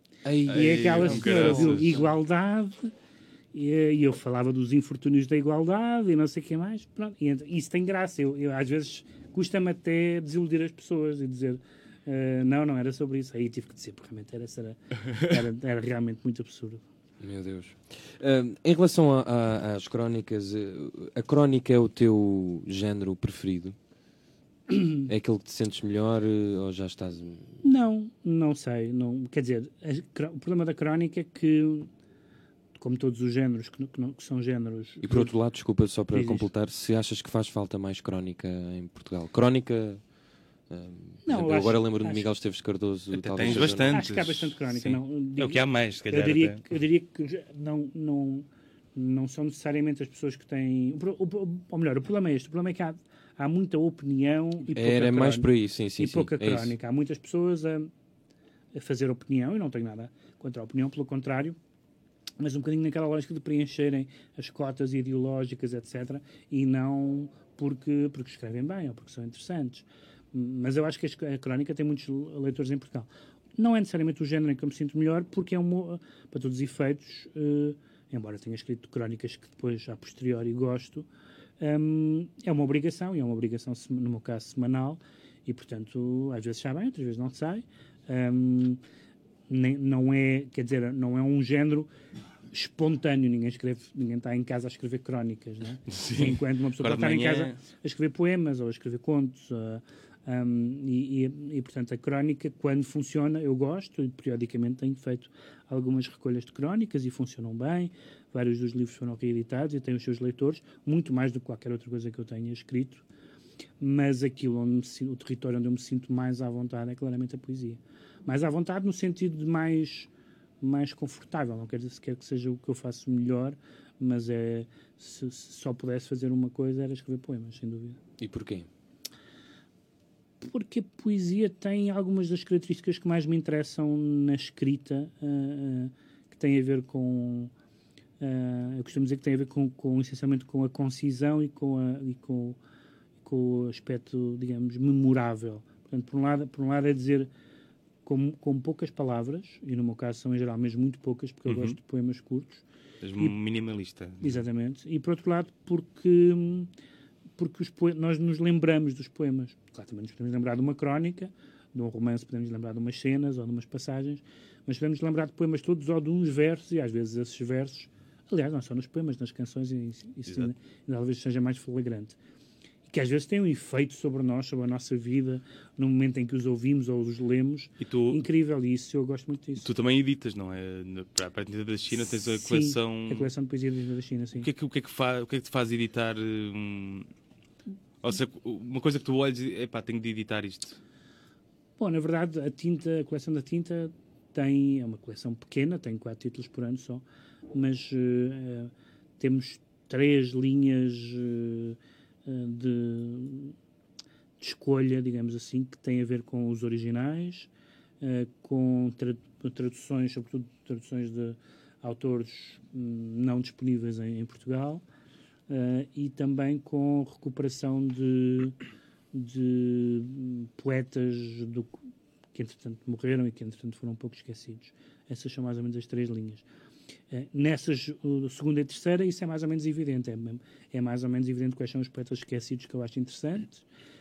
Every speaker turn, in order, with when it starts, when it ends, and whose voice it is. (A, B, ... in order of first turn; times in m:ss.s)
0:00.2-0:02.0 A
0:00.5-0:02.9 B
0:00.5-0:02.0 C
0:03.5-0:16.8 B
0:17.2-0:23.8 A
0:24.7-0:25.0 B
0:25.1-0:27.6 A
0:27.6-0:31.9 B
0:32.8-0:35.3 B
0:35.0-0:40.0 A
0:36.1-0:36.5 B
0:40.7-0:44.0 A
0:41.2-0:42.2 B
0:43.1-0:46.6 C
0:43.5-0:57.9 B
0:54.7-0:56.8 A
0:58.7-1:01.6 B
1:02.4-1:21.1 B
1:21.6-1:28.8 B
1:29.5-1:31.9 B
1:32.5-1:53.0 B
1:35.9-1:37.6 C
1:53.8-2:00.1 B
2:00.6-2:08.0 B
2:08.2-2:08.7 A
2:10.4-2:17.5 B
2:18.2-2:22.6 B
2:23.2-2:27.3 B
2:28.0-2:32.6 B
2:31.5-2:31.8 C
2:33.0-2:34.4 C
2:34.2-2:36.7 B
2:37.4-2:52.2 B
2:52.9-2:59.7 B
2:57.8-2:58.2 C
2:59.6-3:03.3 C
3:02.4-3:04.5 B
3:04.4-3:07.1 C
3:08.0-3:10.8 C
3:11.8-3:23.6 B
3:24.4-3:27.5 B
3:28.0-3:34.8 B
3:35.5-3:38.6 B
3:39.1-3:41.8 B
3:42.3-3:46.4 B
3:47.1-3:53.6 B